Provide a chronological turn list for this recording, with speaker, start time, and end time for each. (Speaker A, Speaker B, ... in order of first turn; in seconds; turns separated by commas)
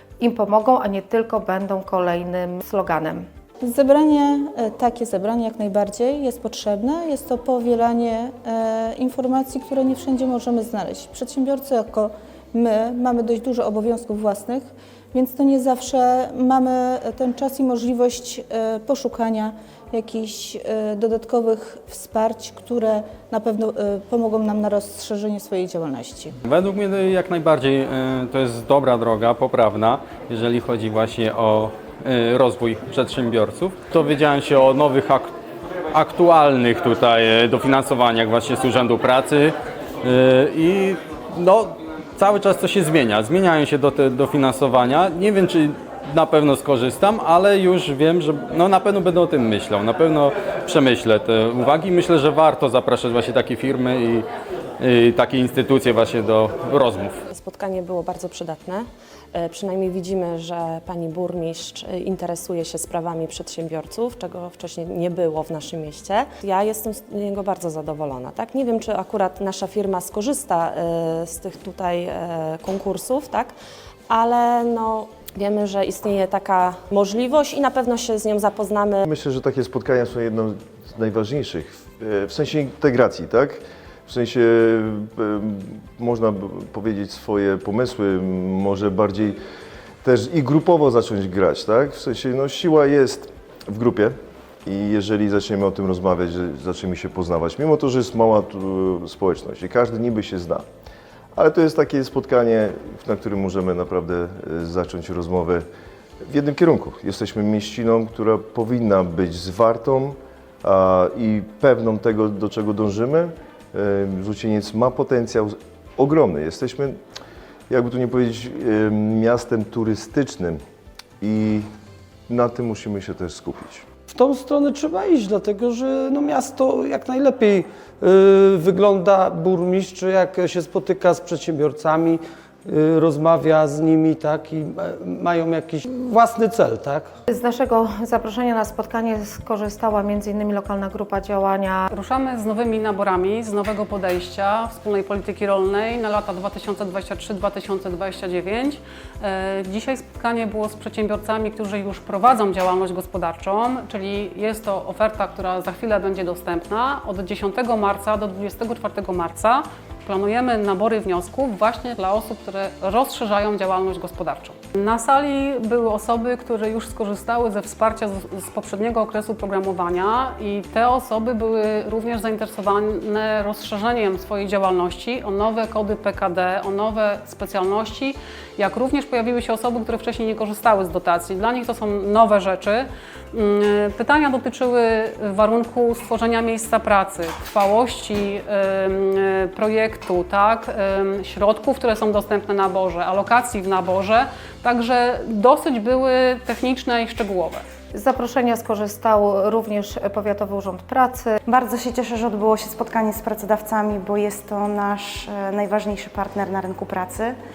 Speaker A: 0.2-3.2, Speaker B: 3.8-8.0, Speaker B: 8.7-12.0, Speaker B: 13.7-14.4, Speaker B: 16.1-19.1, Speaker B: 20.0-21.2, Speaker B: 21.8-22.8, Speaker B: 23.7-24.1, Speaker C: 26.4-35.3, Speaker C: 35.9-54.3, Speaker C: 54.8-57.2, Speaker D: 57.3-73.5, Speaker D: 74.1-79.0, Speaker E: 79.0-89.4, Speaker E: 90.0-100.7, Speaker E: 101.3-105.7, Speaker E: 106.2-117.0, Speaker E: 117.7-120.6, Speaker E: 121.2-121.7, Speaker E: 122.3-123.8, Speaker F: 124.1-137.1, Speaker A: 137.3-141.8, Speaker G: 141.9-197.6, Speaker A: 197.9-201.4, Speaker H: 201.4-207.3